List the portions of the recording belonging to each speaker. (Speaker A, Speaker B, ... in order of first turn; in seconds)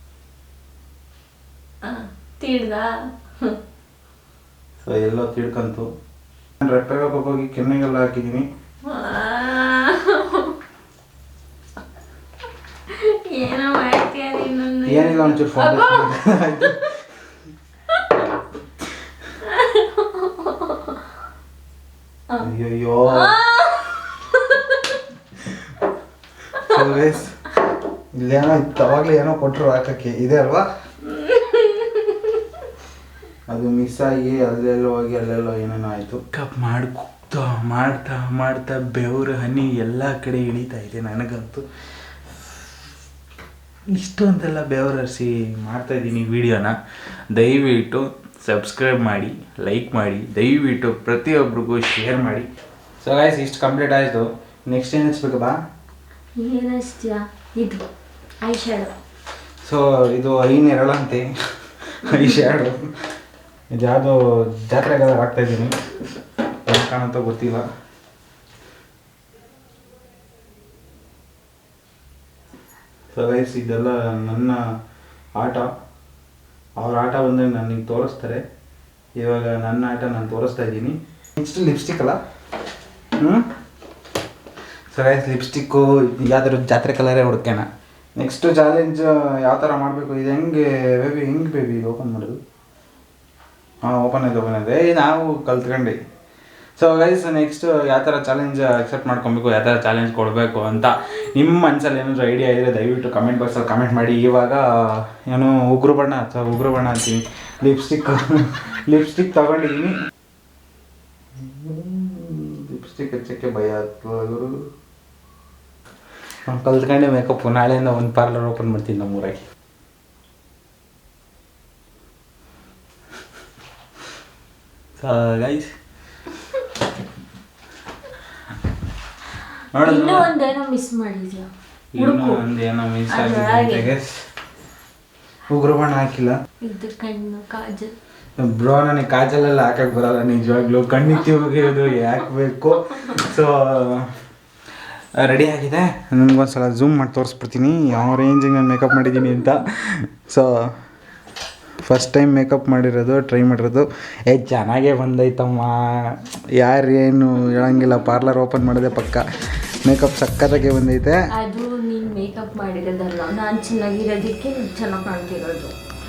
Speaker A: 1.8-3.6, 8.8-10.5, 12.9-16.8, 19.4-21.0, 23.1-25.0, 26.6-26.8, 31.1-32.4, 56.4-57.8, 58.4-58.9, 129.8-132.4, 133.1-133.9, 136.6-137.9, 161.3-165.7
Speaker B: 4.8-5.9, 6.6-8.4, 14.8-16.8, 22.4-23.3, 26.6-27.4, 28.1-30.6, 33.5-41.6, 43.9-46.8, 47.3-52.5, 53.0-55.6, 59.6-61.3, 61.9-62.8, 63.7-65.8, 66.7-67.7, 73.1-74.6, 75.4-75.7, 76.8-78.4, 79.2-82.2, 84.9-87.7, 88.2-92.4, 93.8-96.0, 96.8-104.6, 105.3-109.9, 111.4-114.5, 116.5-119.4, 125.0-125.7, 129.7-130.2, 131.9-134.1, 135.5-136.4, 138.4-144.1, 145.2-150.5, 151.8-159.2, 159.8-161.2